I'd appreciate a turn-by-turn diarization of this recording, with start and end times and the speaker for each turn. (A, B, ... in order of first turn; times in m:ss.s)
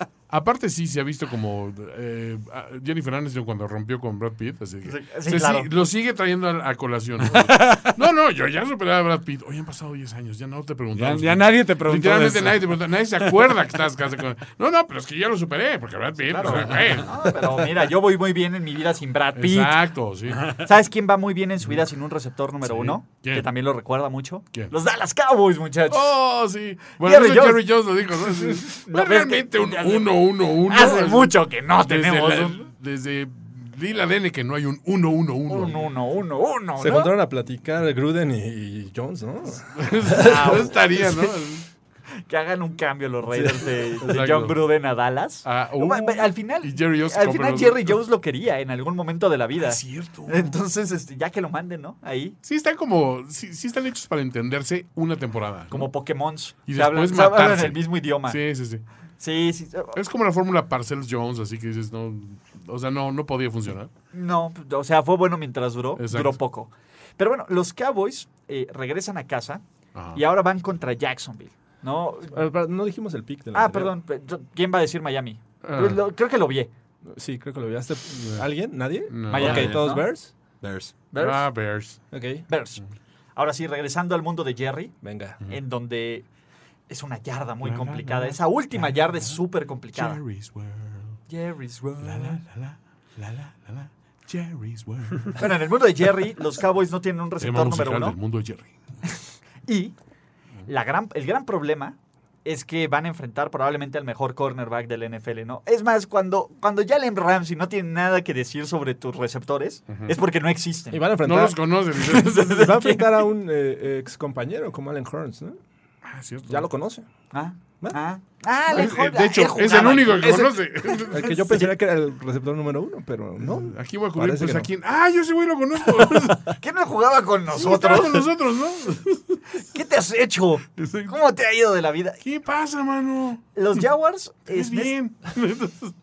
0:00.3-0:17.2 A
0:04.8-0:05.7 B
0:07.2-0:07.9 C
0:10.9-0:13.5 C
0:16.3-0:19.8 B
0:16.4-0:16.9 C
0:19.3-0:20.6 A
0:20.6-0:26.2 B
0:22.6-0:23.5 A
0:25.9-0:35.9 A
0:27.0-0:27.7 B
0:28.3-0:32.6 B
0:35.5-0:37.1 B
0:36.8-0:40.7 D
0:39.7-0:41.6 A
0:40.1-0:41.0 B
0:42.2-0:52.4 B
0:43.3-0:44.0 D
0:44.0-0:44.6 A
0:45.4-0:48.0 A
0:49.6-0:50.5 A
0:52.4-0:55.9 A
0:55.7-0:58.4 B
0:56.7-0:58.8 A
0:59.2-1:00.0 B
0:59.9-1:03.9 A
1:04.1-1:12.4 B
1:06.0-1:06.4 A
1:09.9-1:10.2 A
1:12.3-1:13.9 D
1:13.5-1:16.7 B
1:15.6-1:16.0 A
1:17.0-1:20.3 D
1:19.1-1:19.6 A
1:19.3-1:20.1 B
1:19.4-1:19.8 C
1:20.6-1:20.9 C
1:21.1-1:21.4 B
1:21.2-1:22.0 A
1:22.1-1:22.4 D
1:22.5-1:22.8 B
1:23.4-1:24.9 B
1:25.0-1:25.4 D
1:25.4-1:26.2 B
1:26.9-1:30.2 B
1:27.6-1:29.4 A
1:29.9-1:31.2 A
1:31.3-1:32.4 B
1:32.0-1:35.4 A
1:35.4-1:38.2 B
1:37.4-1:38.7 A
1:39.6-1:39.9 B
1:40.7-1:51.1 B
1:50.9-1:51.6 D
1:51.2-1:52.8 A
1:52.0-1:53.0 B
1:52.1-1:55.6 D
1:56.0-1:56.6 A
1:56.5-1:57.1 D
1:57.3-2:01.7 B
1:58.7-2:01.4 A
2:01.1-2:04.7 D
2:03.4-2:06.6 A
2:06.5-2:08.3 B
2:07.5-2:09.4 A
2:09.6-2:12.2 B
2:10.8-2:11.1 A
2:12.2-2:13.8 A
2:13.5-2:14.9 B
2:14.5-2:15.9 A